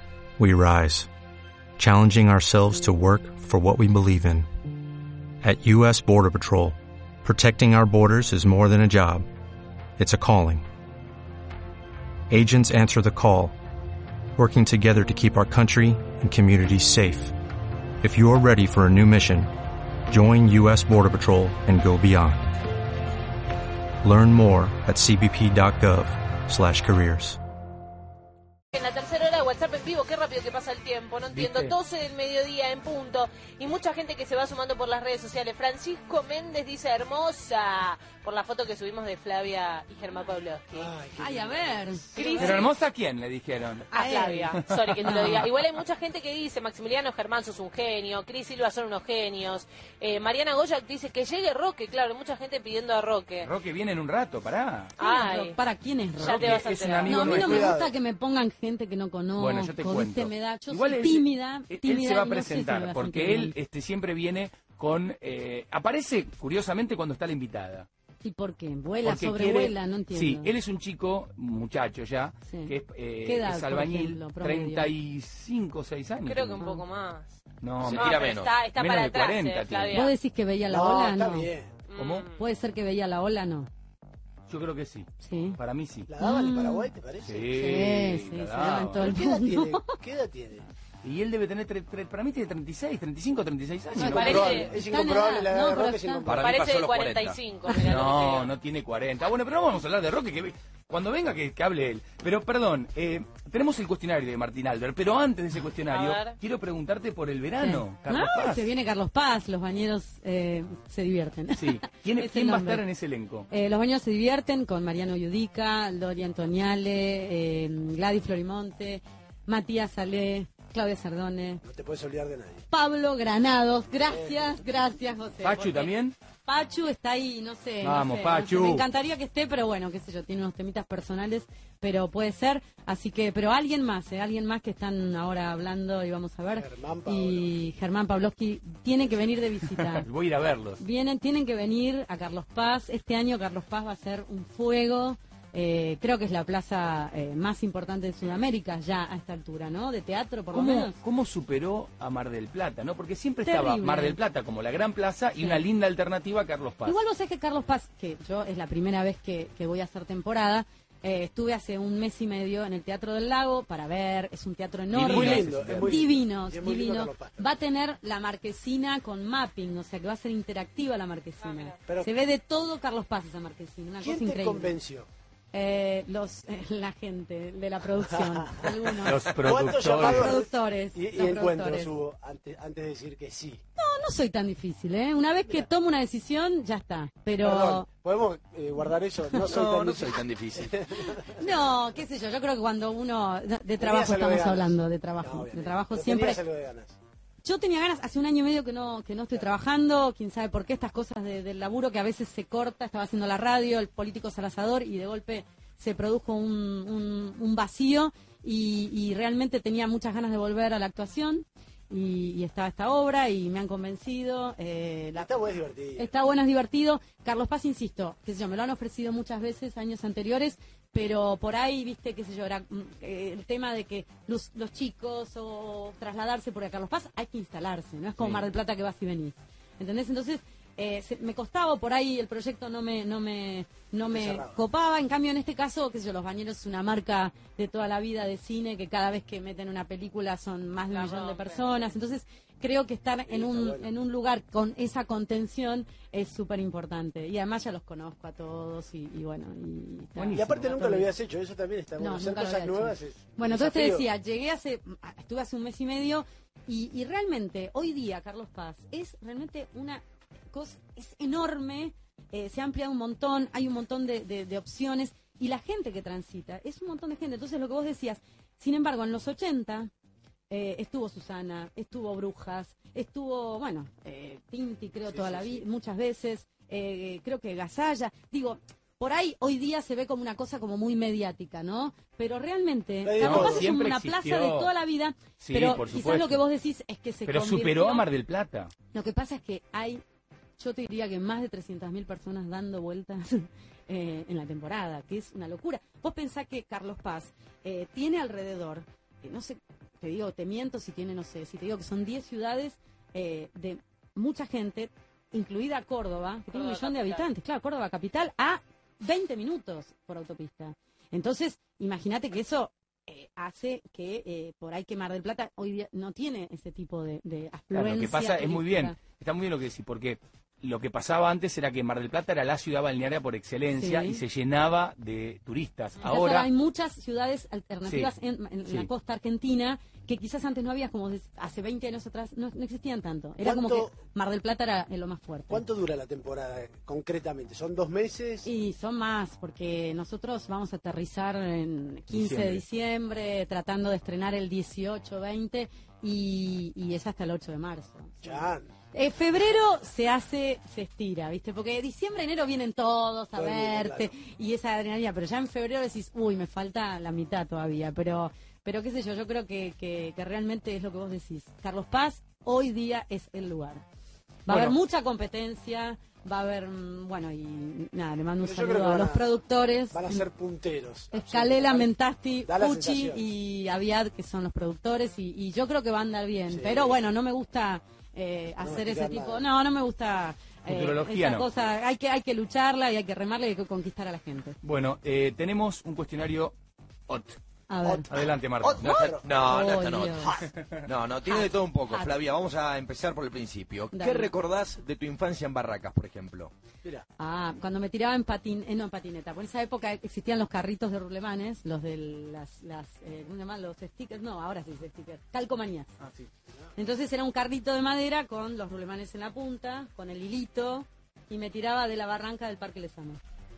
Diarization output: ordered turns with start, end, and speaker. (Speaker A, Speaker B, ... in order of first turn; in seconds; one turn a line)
Speaker A: 0.4-1.1
Speaker A: 1.8-4.5
Speaker A: 5.4-9.2
Speaker A: 10.0-10.6
Speaker A: 12.3-13.5
Speaker A: 14.3-17.3
Speaker A: 18.0-19.5
Speaker A: 20.1-22.6
Speaker A: 24.0-27.4
Speaker B: 28.7-40.9
Speaker C: 31.3-31.7
Speaker D: 40.7-42.4
Speaker E: 41.2-42.7
Speaker B: 42.1-42.7
Speaker C: 42.4-43.9
Speaker E: 43.9-45.5
Speaker B: 43.9-53.5
Speaker C: 44.5-45.5
Speaker C: 53.4-54.9
Speaker B: 55.0-55.6
Speaker E: 55.0-63.5
Speaker B: 56.2-57.4
Speaker C: 56.2-57.7
Speaker D: 57.2-57.9
Speaker C: 59.4-67.9
Speaker E: 68.2-70.5
Speaker C: 69.0-76.6
Speaker E: 72.5-72.7
Speaker E: 73.2-74.9
Speaker B: 76.2-80.1
Speaker E: 76.6-76.8
Speaker C: 77.6-80.1
Speaker F: 77.8-78.5
Speaker E: 79.9-81.5
Speaker D: 80.7-81.8
Speaker B: 81.9-82.4
Speaker C: 82.0-82.3
Speaker E: 82.3-83.7
Speaker C: 84.5-86.1
Speaker E: 85.2-85.6
Speaker D: 86.1-87.5
Speaker E: 86.2-86.9
Speaker C: 87.2-89.1
Speaker E: 87.5-89.9
Speaker D: 89.0-90.7
Speaker C: 91.0-94.6
Speaker E: 94.0-96.3
Speaker D: 94.0-96.5
Speaker B: 94.0-94.8
Speaker F: 96.2-97.4
Speaker B: 96.4-98.5
Speaker C: 97.7-108.7
Speaker B: 105.9-106.3
Speaker E: 107.6-112.8
Speaker C: 111.5-113.5
Speaker E: 113.5-121.6
Speaker D: 121.6-122.6
Speaker E: 122.7-125.9
Speaker D: 124.1-124.4
Speaker C: 125.4-126.1
Speaker E: 126.4-140.1
Speaker C: 127.8-128.8
Speaker D: 136.6-137.5
Speaker C: 139.8-140.8
Speaker E: 140.8-151.0
Speaker C: 150.5-157.0
Speaker E: 153.4-154.2
Speaker E: 155.4-155.6
Speaker E: 156.8-174.8
Speaker C: 164.9-166.1
Speaker D: 165.0-167.5
Speaker B: 171.4-171.8
Speaker D: 174.0-175.1
Speaker E: 175.5-181.9
Speaker D: 178.2-178.7
Speaker C: 179.0-180.4
Speaker D: 179.3-183.6
Speaker E: 183.8-187.9
Speaker D: 187.4-191.5
Speaker F: 189.4-190.8
Speaker E: 191.1-196.4
Speaker D: 193.8-197.0
Speaker E: 197.4-215.3
Speaker D: 215.2-216.1
Speaker E: 215.9-251.1
Speaker C: 228.2-228.4
Speaker D: 234.0-234.6
Speaker B: 240.9-241.8
Speaker D: 243.3-243.9
Speaker C: 250.2-250.7
Speaker D: 250.3-254.1
Speaker E: 252.0-269.9
Speaker E: 270.5-288.1
Speaker D: 275.1-275.6
Speaker D: 283.0-283.7
Speaker C: 283.2-284.7
Speaker C: 285.4-286.4
Speaker C: 287.3-288.7
Speaker E: 288.9-290.0
Speaker E: 290.6-319.0
Speaker B: 306.5-307.2
Speaker C: 317.7-326.5
Speaker E: 323.7-324.2
Speaker E: 326.0-335.6
Speaker D: 333.4-333.9
Speaker D: 335.5-338.5
Speaker E: 338.4-363.8
Speaker C: 342.1-342.6
Speaker D: 348.2-348.7
Speaker D: 353.3-354.1
Speaker E: 364.4-370.2
Speaker C: 364.5-364.7
Speaker D: 368.4-369.3
Speaker D: 369.9-371.9
Speaker E: 371.1-384.6
Speaker D: 372.4-373.2
Speaker D: 376.5-377.0
Speaker D: 378.6-379.4
Speaker C: 380.7-381.5
Speaker C: 384.6-386.5
Speaker C: 387.1-387.4
Speaker E: 387.7-388.1
Speaker D: 387.8-389.6
Speaker C: 388.1-389.0
Speaker F: 388.8-396.5
Speaker E: 389.0-390.3
Speaker E: 391.2-392.1
Speaker E: 393.9-394.3
Speaker E: 397.2-405.9
Speaker E: 406.8-413.2